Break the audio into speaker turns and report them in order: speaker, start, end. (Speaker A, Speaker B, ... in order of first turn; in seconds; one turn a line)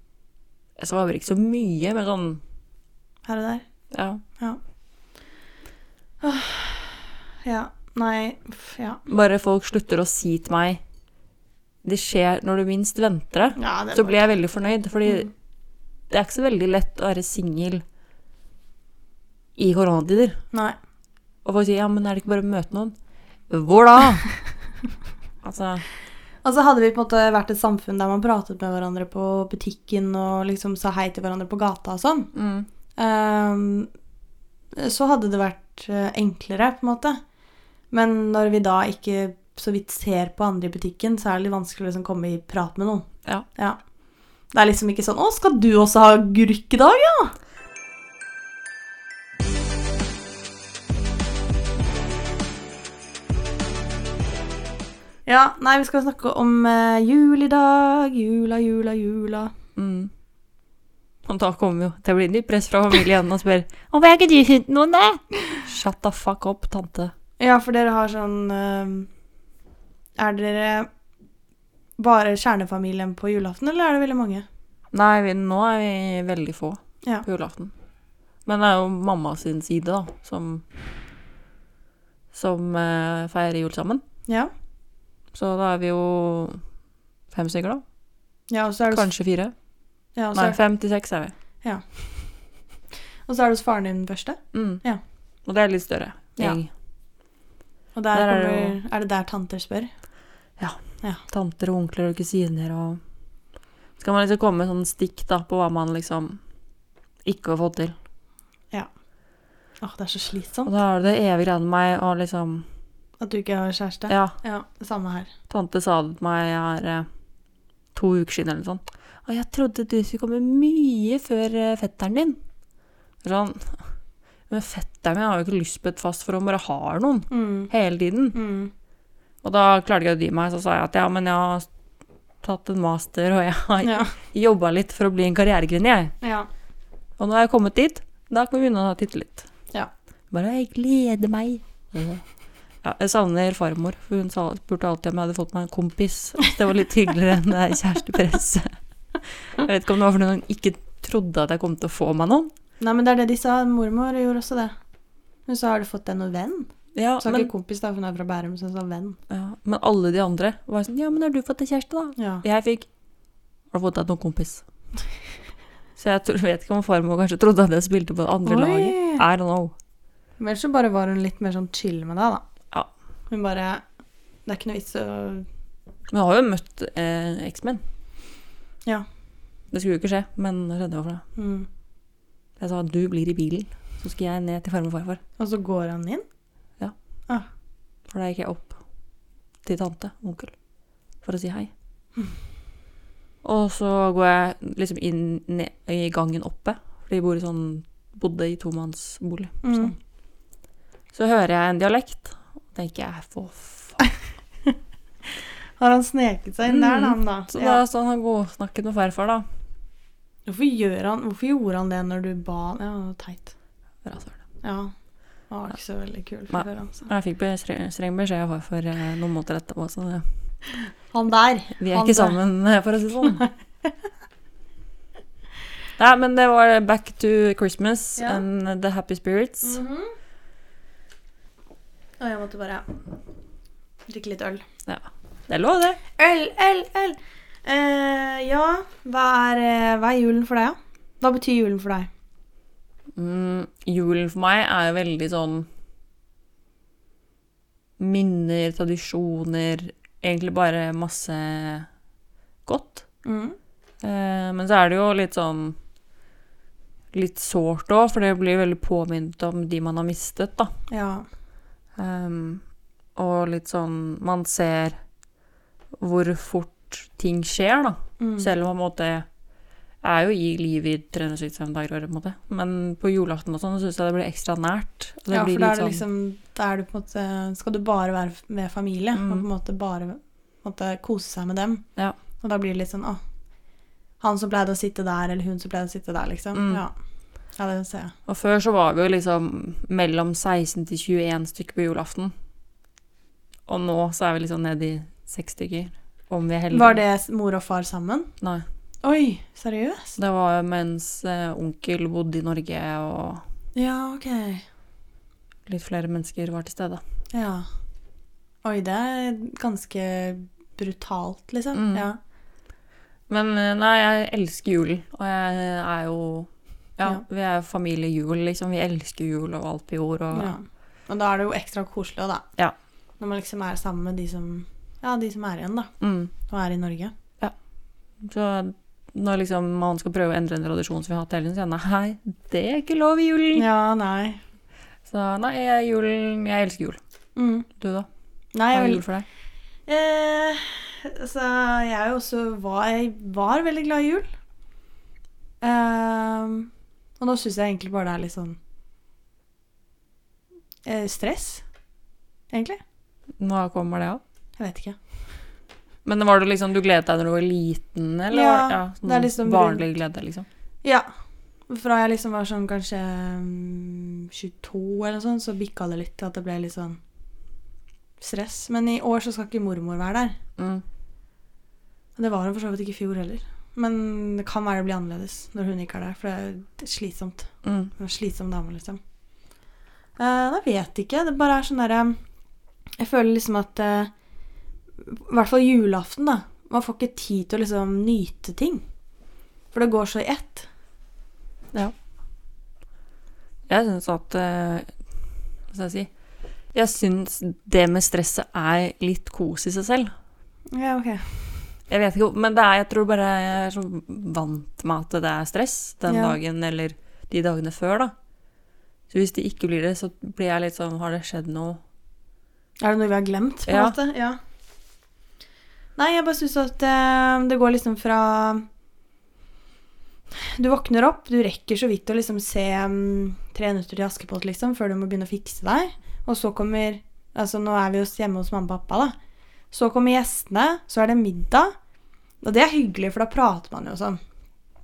Speaker A: 0.8-2.4
Speaker B: 3.2-3.6
Speaker A: 3.9-4.2
Speaker B: 6.2-9.0
Speaker A: 9.1-10.8
Speaker A: 11.8-15.3
Speaker B: 13.6-14.2
Speaker A: 16.1-17.8
Speaker A: 19.6-20.4
Speaker B: 20.5-20.8
Speaker A: 21.4-22.9
Speaker A: 23.5-24.3
Speaker A: 25.4-25.9
Speaker B: 26.4-32.3
Speaker A: 32.3-32.7
Speaker B: 33.0-33.9
Speaker B: 34.7-37.2
Speaker B: 37.9-43.8
Speaker B: 44.5-47.3
Speaker B: 55.2-59.5
Speaker A: 59.8-60.1
Speaker A: 61.2-67.1
Speaker B: 67.4-69.1
Speaker B: 70.2-70.9
Speaker B: 72.0-74.4
Speaker A: 74.9-77.7
Speaker A: 78.4-80.6
Speaker A: 82.3-84.0
Speaker A: 85.3-86.6
Speaker A: 87.3-87.8
Speaker B: 88.5-89.1
Speaker A: 88.9-89.5
Speaker B: 90.2-90.6
Speaker A: 90.3-91.3
Speaker B: 91.6-92.4
Speaker B: 93.2-95.0
Speaker A: 94.5-94.8
Speaker A: 95.5-96.7
Speaker B: 97.9-99.9
Speaker A: 98.1-98.8
Speaker A: 100.6-103.0
Speaker A: 104.0-106.4
Speaker A: 107.2-108.0
Speaker B: 109.8-110.7
Speaker A: 110.7-112.7
Speaker B: 113.2-115.3
Speaker A: 114.1-114.3
Speaker A: 115.5-117.1
Speaker A: 117.9-122.4
Speaker A: 123.2-123.9
Speaker A: 124.5-128.4
Speaker B: 127.3-127.7
Speaker B: 128.3-128.7
Speaker A: 129.4-131.7
Speaker A: 132.4-136.1
Speaker B: 133.8-134.1
Speaker B: 136.2-136.5
Speaker A: 137.2-139.5
Speaker A: 140.3-142.2
Speaker A: 142.8-152.5
Speaker B: 152.8-154.7
Speaker B: 155.4-159.2
Speaker A: 156.9-157.5
Speaker A: 159.3-162.9
Speaker B: 162.2-162.4
Speaker A: 163.7-164.6
Speaker A: 166.0-169.7
Speaker B: 168.4-169.2
Speaker B: 170.4-172.4
Speaker B: 173.3-173.8
Speaker B: 174.4-175.5
Speaker A: 176.1-177.8
Speaker A: 179.7-181.2
Speaker B: 181.3-181.7
Speaker A: 182.6-185.2
Speaker B: 185.4-186.2
Speaker A: 188.1-188.8
Speaker A: 189.6-190.6
Speaker A: 191.2-191.7
Speaker A: 193.4-199.9
Speaker B: 199.6-199.9
Speaker A: 201.1-204.0
Speaker B: 205.3-207.8
Speaker A: 206.7-209.4
Speaker B: 210.4-213.5
Speaker A: 214.0-214.4
Speaker B: 214.6-214.9
Speaker B: 215.5-217.1
Speaker A: 216.5-220.2
Speaker B: 221.1-222.4
Speaker A: 221.8-223.4
Speaker B: 223.2-223.9
Speaker A: 226.0-229.8
Speaker B: 228.2-228.4
Speaker B: 229.6-230.1
Speaker B: 232.2-233.0
Speaker B: 234.1-234.6
Speaker A: 234.8-236.0
Speaker B: 236.2-242.1
Speaker A: 243.2-245.7
Speaker A: 248.0-251.9
Speaker A: 252.7-253.0
Speaker B: 253.2-253.6
Speaker A: 254.0-255.8
Speaker A: 257.1-260.7
Speaker B: 260.9-261.2
Speaker A: 261.9-262.6
Speaker A: 263.1-265.0
Speaker A: 266.0-269.2
Speaker B: 268.2-268.5
Speaker A: 270.0-276.0
Speaker B: 275.3-281.9
Speaker A: 279.1-279.4
Speaker B: 282.4-283.2
Speaker B: 284.2-286.9
Speaker A: 286.5-286.8
Speaker B: 287.5-288.1
Speaker A: 288.3-292.3
Speaker A: 293.7-297.0
Speaker B: 296.7-298.3
Speaker B: 299.0-300.2
Speaker A: 300.2-303.4
Speaker B: 303.7-304.6
Speaker A: 305.7-307.0
Speaker B: 307.3-307.7
Speaker B: 308.6-312.2
Speaker A: 311.7-312.1
Speaker A: 313.3-320.5
Speaker B: 320.3-322.4
Speaker B: 323.2-327.1
Speaker A: 326.0-326.3
Speaker A: 328.2-333.6
Speaker B: 333.5-334.4
Speaker A: 335.1-337.0
Speaker B: 337.4-337.7
Speaker A: 337.8-338.1
Speaker B: 338.5-339.0
Speaker A: 338.7-339.2
Speaker B: 339.9-344.3
Speaker B: 345.6-348.6
Speaker B: 350.8-351.6
Speaker B: 352.5-352.8
Speaker A: 353.4-354.2
Speaker B: 354.6-355.0
Speaker A: 356.0-360.5
Speaker B: 358.3-359.8
Speaker B: 361.7-367.0
Speaker B: 368.2-370.4
Speaker A: 370.6-370.8
Speaker B: 372.2-379.0
Speaker A: 377.6-377.9
Speaker B: 380.2-382.2
Speaker B: 383.0-384.1
Speaker B: 385.0-388.8
Speaker B: 389.7-390.7
Speaker A: 393.7-394.9
Speaker A: 395.7-396.1
Speaker A: 396.7-400.1
Speaker B: 400.7-401.7
Speaker A: 401.9-408.1
Speaker B: 406.1-406.4
Speaker A: 409.1-411.8
Speaker B: 412.8-414.4
Speaker A: 413.7-413.9
Speaker B: 415.9-418.6
Speaker B: 420.3-429.1
Speaker B: 429.7-431.7
Speaker B: 432.4-434.2